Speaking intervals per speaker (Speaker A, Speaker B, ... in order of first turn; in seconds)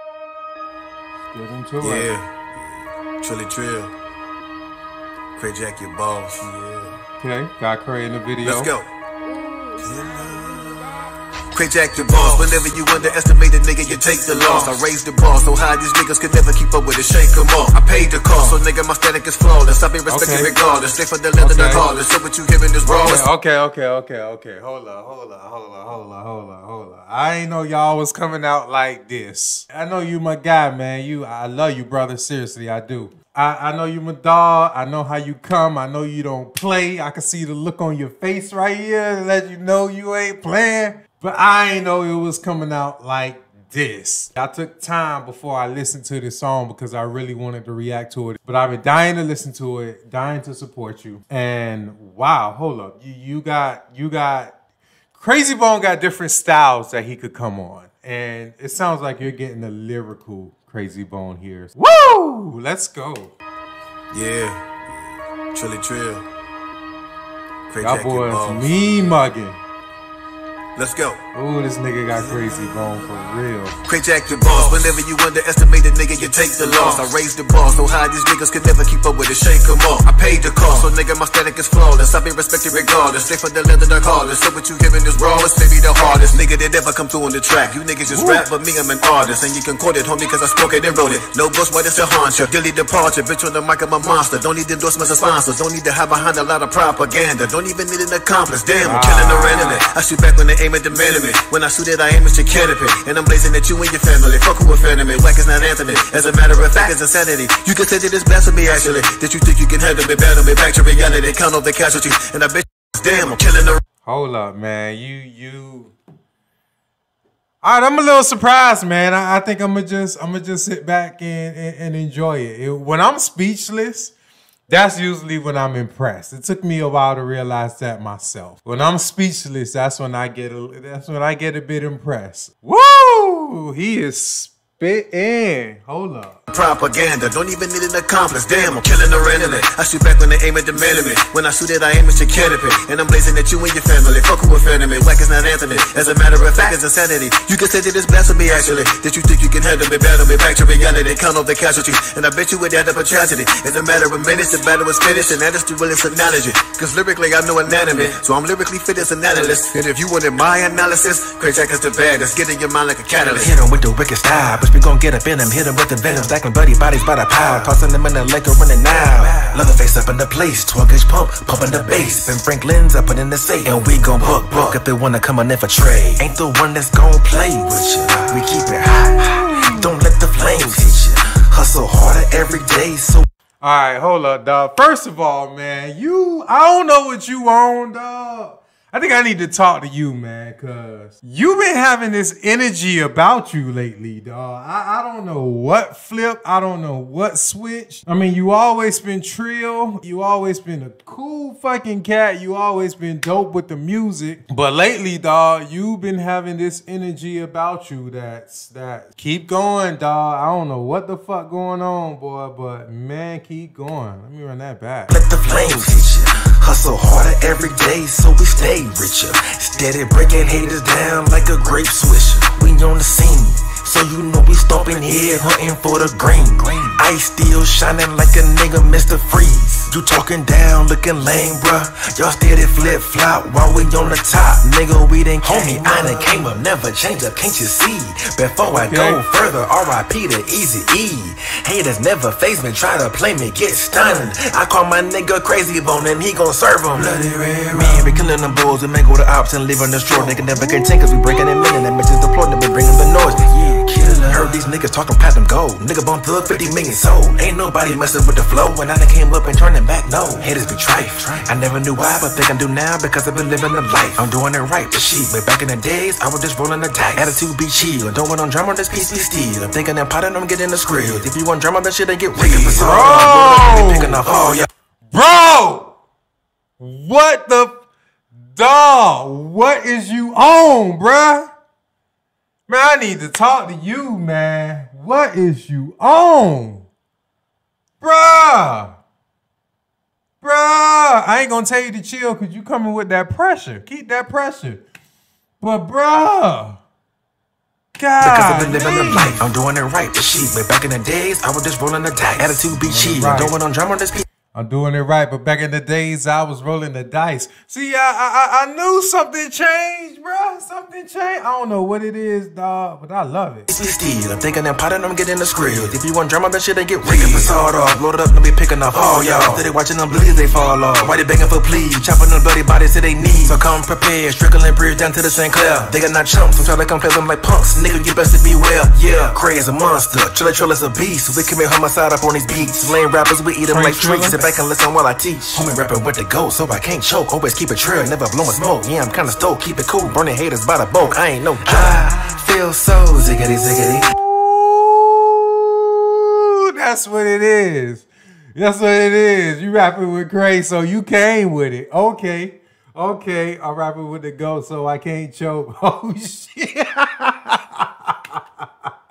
Speaker A: 1.3-2.1, 7.2-8.7, 20.1-20.5, 21.4-21.9, 22.9-54.5, 55.1-63.4, 67.8-69.6, 71.3-73.8, 88.1-88.5, 98.8-99.9, 114.0-115.9, 117.6-124.1, 124.7-136.4, 179.2-179.9, 183.6-215.1, 238.6-239.2, 250.2-250.8, 272.4-274.2, 275.1-275.9, 276.8-277.8, 278.5-281.5, 282.7-286.9, 288.0-289.0, 290.4-294.8, 295.6-296.8, 298.0-299.4, 302.7-303.6, 304.5-313.7, 333.7-334.4, 344.1-358.4
Speaker B: 1.8-2.5, 3.2-3.9, 5.3-7.0, 8.4-8.9, 9.8-10.6, 11.5-23.2, 64.1-64.8, 65.5-66.2, 67.7-68.7, 70.8-71.2, 73.8-113.8, 136.5-163.5
Speaker C: 163.4-183.2, 215.1-274.7, 298.2-304.2, 313.7-344.1